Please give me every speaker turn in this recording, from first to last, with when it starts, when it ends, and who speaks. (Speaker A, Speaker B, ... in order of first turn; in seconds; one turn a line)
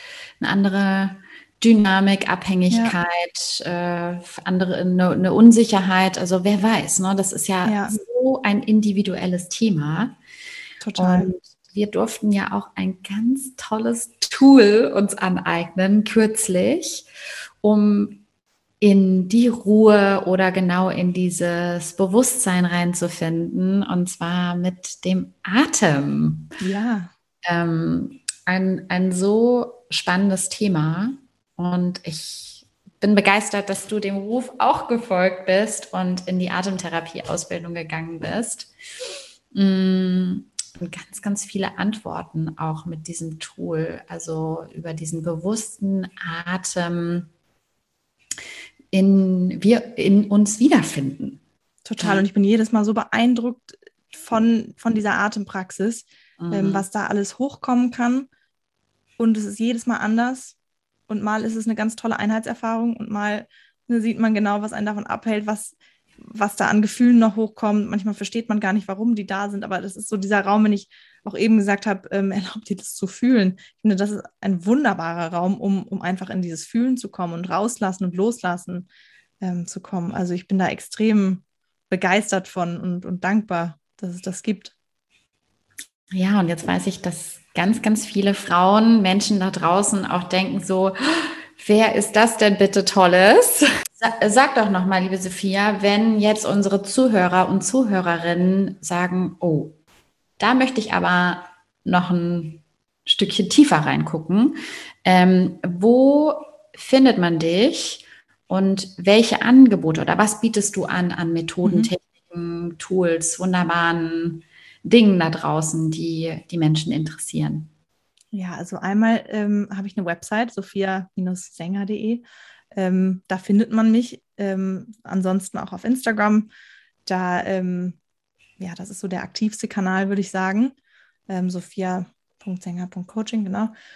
Speaker A: 0.4-10.2
Speaker B: 7.7-8.0
Speaker B: 10.8-11.3
Speaker A: 11.0-17.1
Speaker A: 17.6-18.2
Speaker A: 18.8-26.5
Speaker B: 26.6-27.1
Speaker A: 27.5-38.7
Speaker A: 39.5-47.3
Speaker A: 48.9-51.4
Speaker B: 51.9-58.3
Speaker A: 52.0-52.2
Speaker A: 56.4-56.9
Speaker B: 59.2-60.6
Speaker B: 61.1-78.9
Speaker B: 79.4-84.8
Speaker A: 86.1-99.8
Speaker A: 100.4-117.7
Speaker B: 111.6-111.9
Speaker B: 118.3-126.5
Speaker B: 127.1-128.0
Speaker B: 128.6-130.8
Speaker B: 131.3-133.7